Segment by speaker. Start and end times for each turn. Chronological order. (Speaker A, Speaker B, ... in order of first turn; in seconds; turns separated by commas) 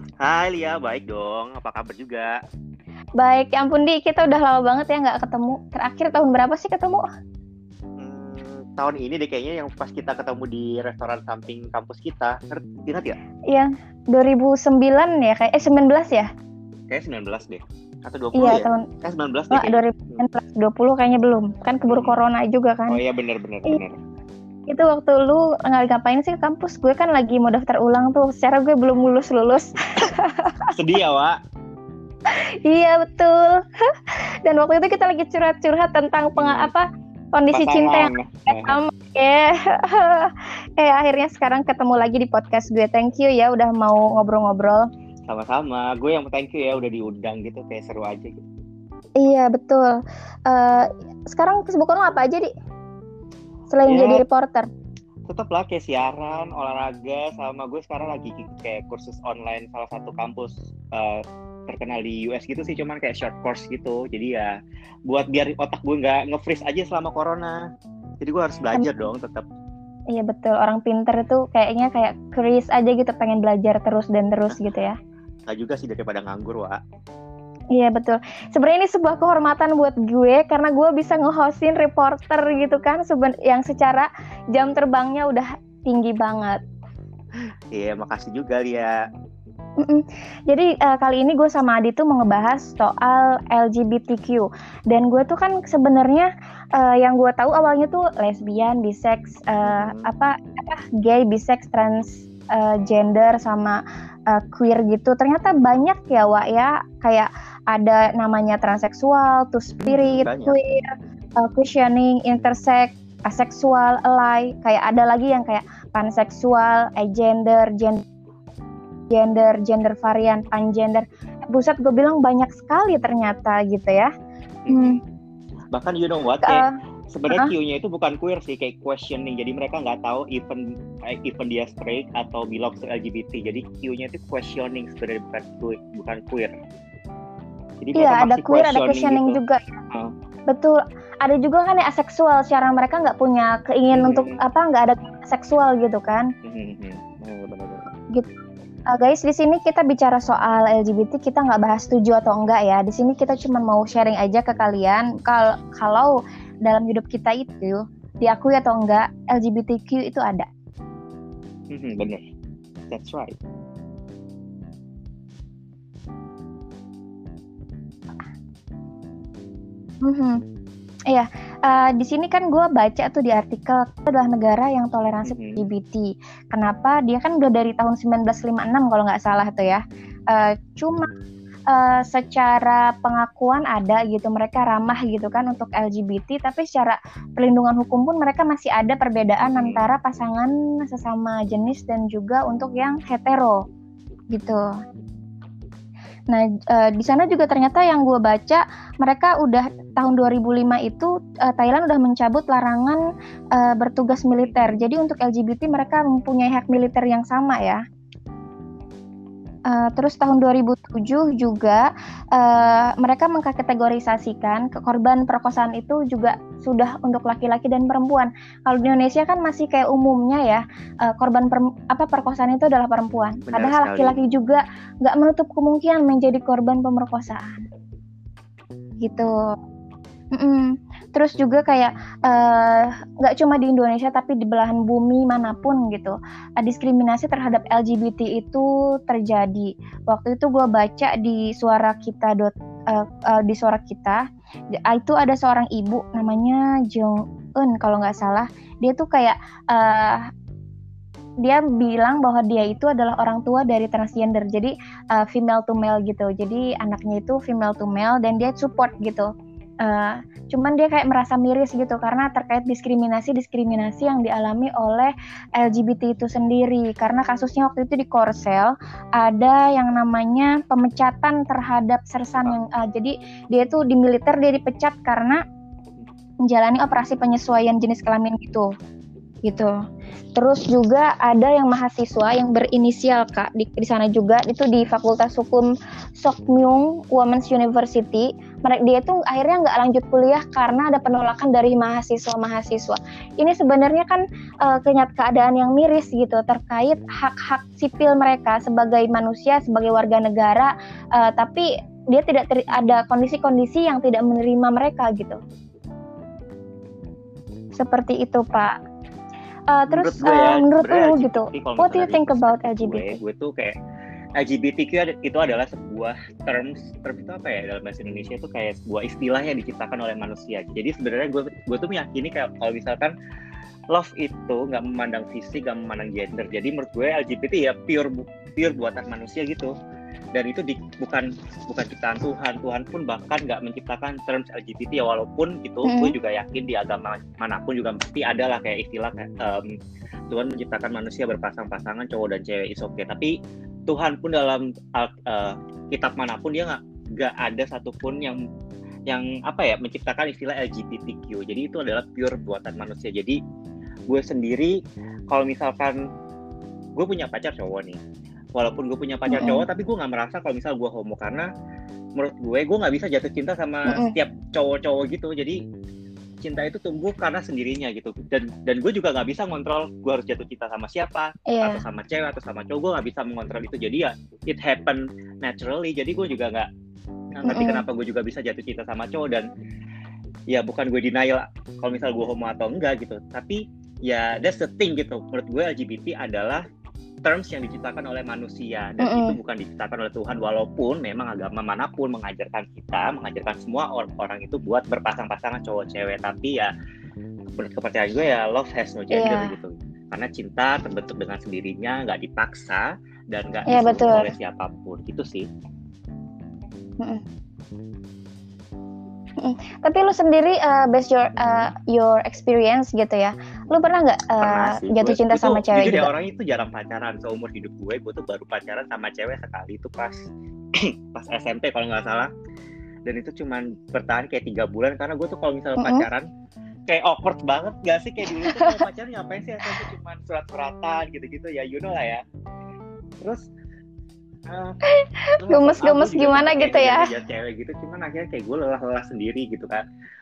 Speaker A: 0.2-2.4, Speaker B: 3.2-7.1, Speaker A: 8.0-13.2, Speaker B: 13.5-16.3, Speaker A: 16.9-20.2, Speaker B: 18.3-18.9, Speaker B: 19.5-23.0, Speaker A: 21.9-22.2, Speaker A: 22.9-24.0, Speaker B: 24.7-30.7, Speaker A: 30.7-31.4, Speaker B: 32.3-44.9, Speaker A: 36.4-36.7, Speaker A: 37.5-38.8, Speaker A: 45.3-48.4, Speaker B: 49.2-52.5, Speaker B: 53.7-54.7, Speaker A: 53.9-54.2, Speaker A: 55.3-64.5, Speaker A: 65.1-67.7, Speaker A: 68.2-69.4, Speaker B: 70.1-75.0, Speaker A: 75.5-76.8, Speaker B: 77.7-86.6, Speaker A: 87.3-89.0, Speaker B: 89.8-118.0, Speaker A: 99.6-100.1, Speaker A: 109.8-110.5, Speaker B: 119.1-124.1, Speaker A: 124.7-125.0, Speaker B: 124.7-125.0, Speaker A: 125.7-136.6, Speaker B: 126.4-126.7, Speaker A: 137.8-139.4, Speaker B: 137.9-139.8, Speaker B: 140.5-146.3, Speaker A: 143.9-144.4, Speaker A: 146.4-147.9, Speaker B: 148.1-160.5, Speaker A: 161.7-162.3, Speaker A: 162.9-163.4, Speaker B: 170.0-170.4, Speaker B: 171.1-181.1, Speaker A: 175.2-175.7, Speaker B: 181.7-193.6, Speaker A: 189.4-189.9, Speaker B: 194.3-194.7, Speaker B: 196.3-203.0, Speaker B: 203.5-207.8, Speaker A: 204.4-204.8, Speaker B: 209.7-227.7, Speaker A: 223.5-224.2, Speaker B: 229.0-229.6, Speaker B: 230.3-244.2, Speaker B: 244.7-250.3, Speaker B: 251.4-259.3, Speaker B: 259.8-275.4, Speaker B: 276.4-278.7, Speaker B: 279.4-279.7, Speaker B: 280.3-305.4, Speaker B: 307.8-308.8, Speaker B: 309.7-313.2, Speaker A: 309.9-313.8, Speaker A: 314.4-323.1, Speaker A: 323.9-329.7, Speaker A: 330.3-339.7, Speaker B: 335.8-336.1, Speaker A: 340.3-348.4, Speaker A: 349.1-353.4, Speaker A: 354.1-354.8, Speaker A: 355.3-356.0, Speaker A: 357.0-358.0, Speaker A: 358.5-361.5, Speaker B: 359.3-359.6, Speaker A: 362.1-365.6, Speaker A: 366.4-376.7, Speaker B: 371.5-371.8, Speaker A: 377.3-379.5, Speaker B: 377.4-377.8, Speaker A: 380.5-386.6, Speaker A: 387.2-396.7, Speaker B: 389.0-389.3, Speaker A: 397.5-405.5, Speaker B: 399.1-399.5, Speaker B: 403.7-404.3, Speaker B: 409.4-416.1, Speaker A: 411.3-411.7, Speaker A: 414.4-422.3, Speaker A: 423.1-426.3, Speaker B: 425.8-426.1, Speaker A: 426.9-432.2, Speaker B: 428.2-428.8, Speaker A: 433.2-433.5, Speaker A: 434.5-434.8, Speaker B: 434.9-437.1, Speaker A: 435.4-439.8